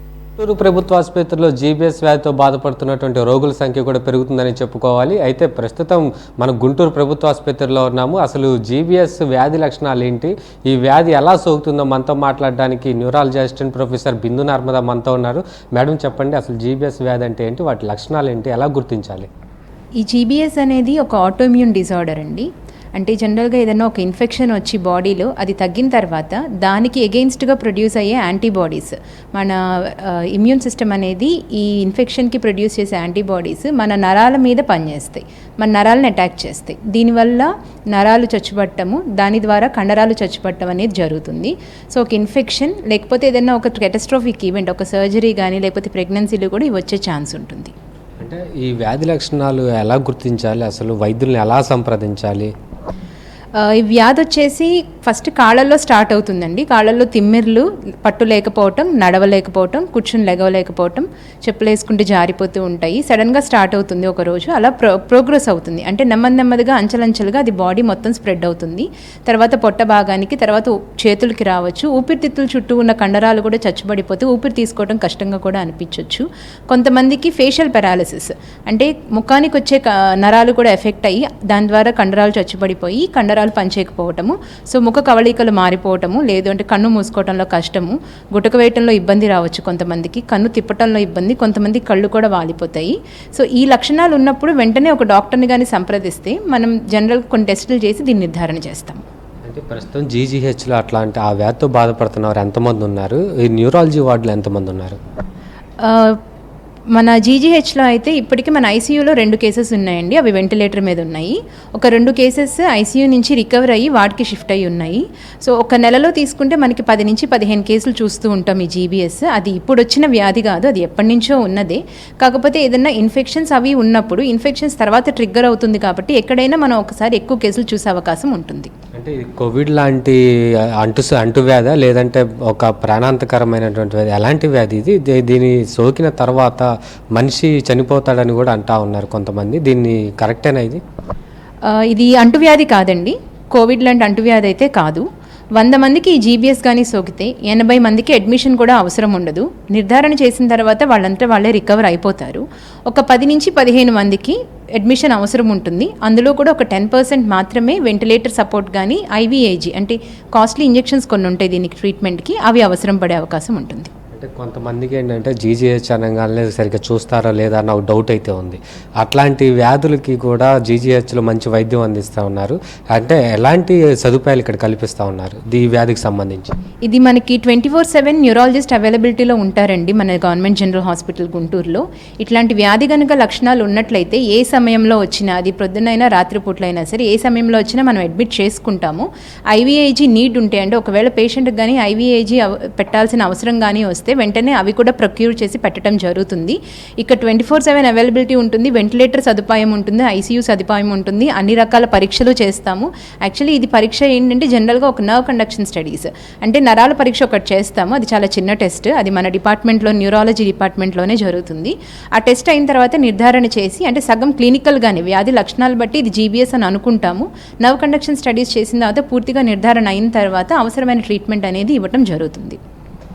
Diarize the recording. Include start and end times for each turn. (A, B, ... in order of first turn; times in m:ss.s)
0:00.4-0:19.3 A
0:20.0-0:47.7 B
0:48.2-0:52.5 A
0:53.6-1:39.0 B
1:39.5-1:45.0 A
1:45.8-1:46.2 B
1:47.0-2:08.7 B
2:08.9-2:10.2 A
2:10.8-2:20.8 A
2:21.7-2:25.0 B
2:25.6-2:43.9 B
2:44.1-2:56.5 A
2:56.9-3:42.6 B